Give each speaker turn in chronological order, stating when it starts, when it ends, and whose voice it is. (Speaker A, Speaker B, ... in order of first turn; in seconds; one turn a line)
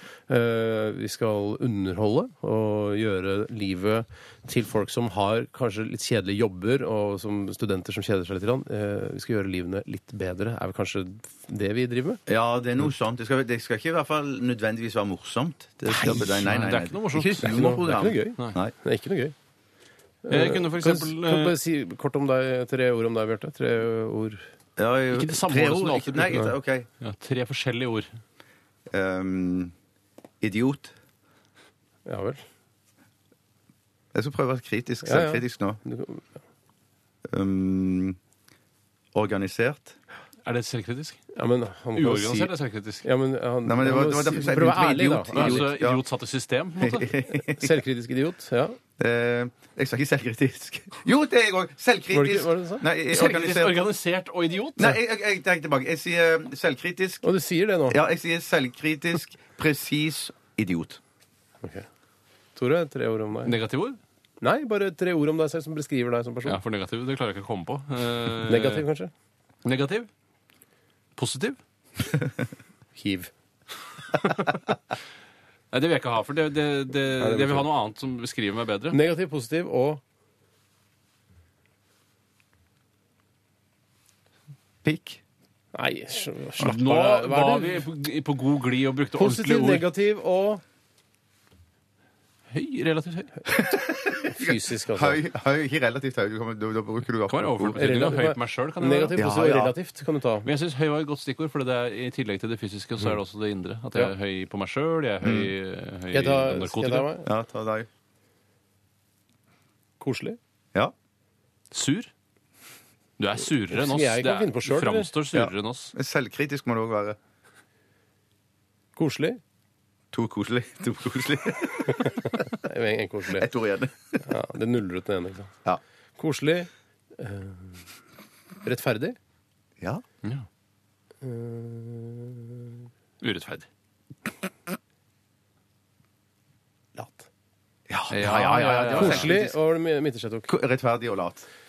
Speaker A: 0.3-12.2
Speaker B: 12.3-18.7
Speaker A: 15.9-16.4
Speaker C: 16.1-17.7
Speaker A: 17.4-19.3
Speaker A: 20.2-24.4
Speaker C: 20.3-21.5
Speaker B: 24.8-26.9
Speaker C: 25.1-26.4
Speaker C: 27.0-28.1
Speaker B: 28.9-29.7
Speaker B: 30.4-30.9
Speaker A: 32.0-32.4
Speaker B: 34.1-35.8
Speaker A: 35.0-36.3
Speaker B: 37.3-38.2
Speaker B: 39.1-40.0
Speaker C: 40.5-41.2
Speaker A: 41.4-42.5
Speaker C: 42.0-43.0
Speaker A: 43.0-45.7
Speaker B: 43.6-46.0
Speaker C: 45.3-47.2
Speaker B: 46.8-47.7
Speaker A: 47.5-48.8
Speaker B: 49.0-53.9
Speaker A: 52.1-52.9
Speaker C: 53.1-55.0
Speaker B: 54.8-57.2
Speaker A: 57.2-58.0
Speaker B: 57.9-61.0
Speaker A: 62.5-63.5
Speaker C: 63.5-64.0
Speaker A: 64.4-66.6
Speaker C: 66.5-68.8
Speaker A: 68.5-69.1
Speaker C: 69.6-70.1
Speaker C: 71.2-71.6
Speaker A: 73.0-73.3
Speaker C: 75.7-79.0
Speaker A: 77.2-77.7
Speaker A: 78.9-80.0
Speaker B: 84.8-85.2
Speaker A: 85.7-87.8
Speaker C: 86.6-89.8
Speaker A: 89.2-90.6
Speaker C: 92.5-93.3
Speaker B: 93.5-97.8
Speaker A: 94.2-95.2
Speaker C: 97.3-99.2
Speaker A: 97.8-100.5
Speaker B: 99.2-99.7
Speaker C: 100.5-107.1
Speaker B: 105.2-105.5
Speaker A: 106.1-107.3
Speaker B: 107.2-107.9
Speaker A: 110.0-110.4
Speaker C: 111.7-112.1
Speaker C: 113.2-115.9
Speaker A: 113.7-115.1
Speaker B: 115.3-117.2
Speaker A: 119.0-119.4
Speaker B: 120.1-122.5
Speaker A: 122.6-123.5
Speaker B: 123.3-124.2
Speaker A: 124.2-125.5
Speaker A: 126.2-127.8
Speaker A: 128.6-129.2
Speaker A: 131.2-132.8
Speaker C: 133.2-133.7
Speaker A: 136.9-137.3
Speaker B: 137.9-139.6
Speaker C: 138.1-139.3
Speaker A: 138.9-140.5
Speaker B: 140.5-141.4